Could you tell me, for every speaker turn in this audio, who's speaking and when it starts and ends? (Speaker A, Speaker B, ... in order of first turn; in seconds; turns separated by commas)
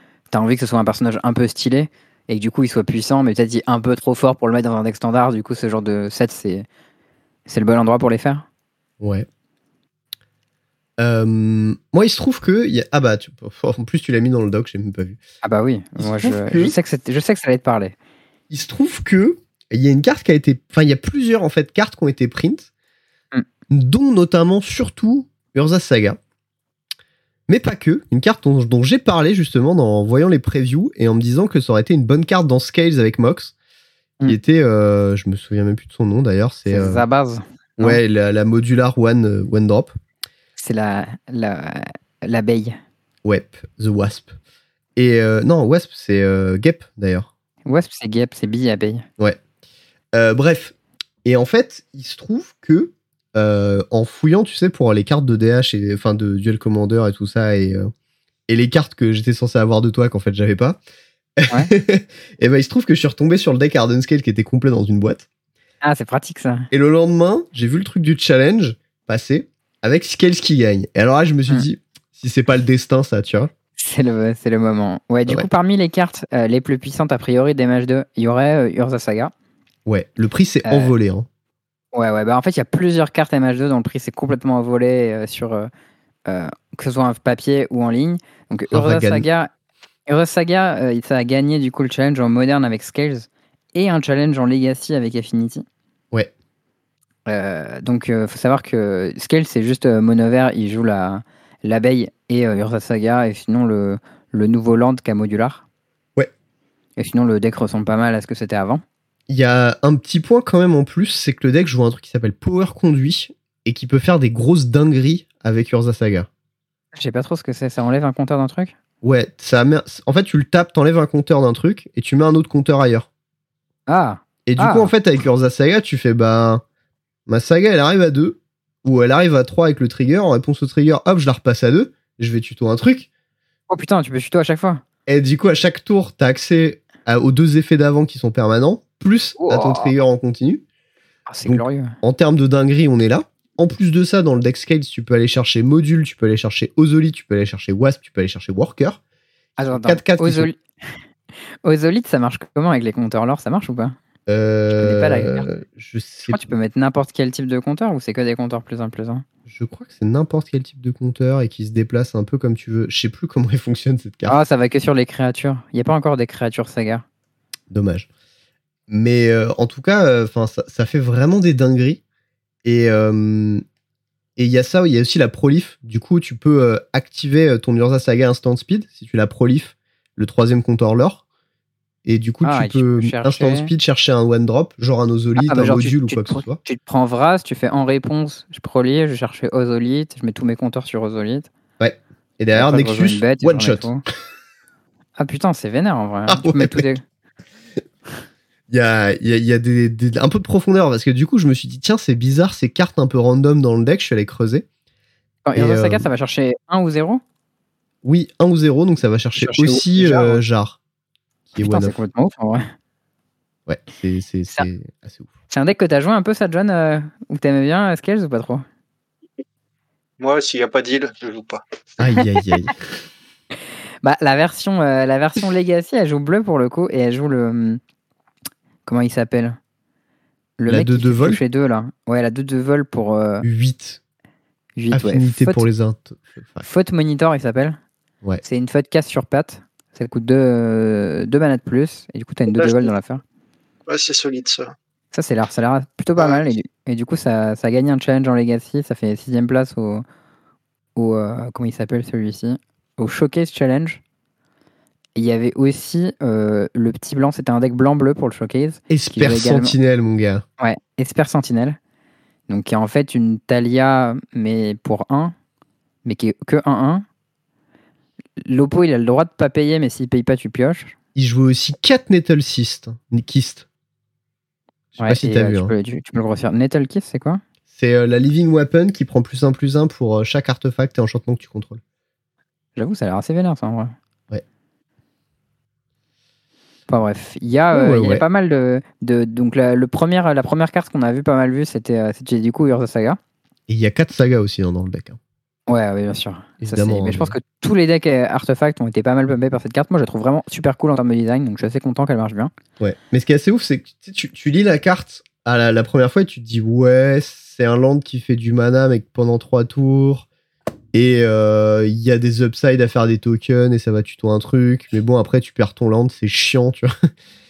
Speaker A: 0.3-6.7, Speaker A: 7.5-8.4, Speaker B: 9.0-9.3, Speaker B: 11.0-15.2, Speaker A: 15.4-17.9, Speaker B: 16.0-16.7, Speaker B: 18.5-22.7, Speaker B: 23.7-26.2, Speaker B: 27.5-33.5, Speaker B: 34.2-37.0, Speaker A: 36.7-38.0, Speaker B: 37.8-39.9, Speaker A: 40.6-42.8, Speaker B: 43.2-44.3, Speaker B: 45.0-47.3, Speaker A: 47.6-49.0, Speaker B: 50.1-57.9, Speaker B: 58.5-60.8, Speaker B: 61.4-65.3, Speaker A: 65.8-66.7, Speaker B: 66.7-73.5, Speaker A: 73.8-79.3, Speaker B: 79.8-81.3, Speaker A: 80.6-80.9, Speaker A: 81.9-85.7, Speaker A: 86.3-89.5, Speaker B: 88.7-89.2, Speaker A: 90.1-95.6, Speaker A: 97.3-105.6, Speaker A: 107.0-108.8, Speaker B: 109.3-116.3, Speaker A: 117.0-118.7, Speaker B: 119.0-123.1, Speaker A: 123.9-124.9, Speaker B: 124.5-126.6, Speaker B: 127.3-133.1, Speaker A: 133.7-134.8, Speaker B: 135.1-140.6, Speaker A: 139.4-139.9, Speaker A: 141.3-142.0, Speaker B: 141.4-149.0, Speaker A: 149.6-150.5, Speaker B: 149.7-150.5, Speaker A: 151.6-153.9, Speaker B: 154.3-156.4, Speaker A: 154.7-155.5, Speaker A: 156.3-159.2, Speaker B: 159.5-164.4, Speaker A: 164.2-167.0, Speaker B: 167.7-168.1, Speaker B: 168.9-172.0, Speaker B: 172.6-173.6, Speaker B: 174.4-181.2, Speaker B: 182.0-186.6, Speaker A: 182.4-183.7, Speaker A: 185.4-191.5, Speaker B: 191.8-193.9, Speaker A: 192.5-194.0, Speaker A: 195.2-197.0, Speaker B: 196.3-196.9, Speaker B: 198.7-204.7, Speaker A: 205.4-207.2, Speaker B: 205.6-206.1, Speaker B: 208.0-210.8, Speaker A: 209.3-210.4, Speaker B: 211.5-212.0, Speaker A: 211.6-212.7, Speaker B: 213.7-215.3, Speaker A: 215.5-218.6, Speaker C: 220.2-221.6, Speaker B: 222.0-222.8, Speaker A: 224.0-227.8, Speaker A: 228.8-229.6, Speaker A: 230.6-233.4, Speaker B: 230.7-231.4, Speaker B: 233.4-234.0, Speaker A: 234.8-235.7, Speaker B: 234.9-236.6, Speaker A: 236.6-237.8, Speaker A: 238.4-243.2, Speaker C: 242.5-242.9, Speaker C: 243.9-244.7, Speaker A: 245.1-250.0, Speaker C: 246.2-246.6, Speaker A: 250.9-254.0, Speaker A: 255.1-259.8, Speaker B: 258.9-260.4, Speaker A: 260.6-261.8, Speaker A: 262.5-265.3, Speaker A: 266.0-267.0, Speaker A: 268.4-270.9, Speaker B: 271.1-273.6, Speaker B: 275.0-275.7, Speaker A: 275.0-277.4, Speaker B: 277.7-281.8, Speaker A: 282.8-283.9, Speaker A: 286.9-293.2, Speaker B: 287.7-288.2, Speaker B: 293.7-295.2, Speaker A: 295.7-302.5, Speaker B: 296.6-297.3, Speaker B: 302.8-310.3, Speaker B: 310.9-317.0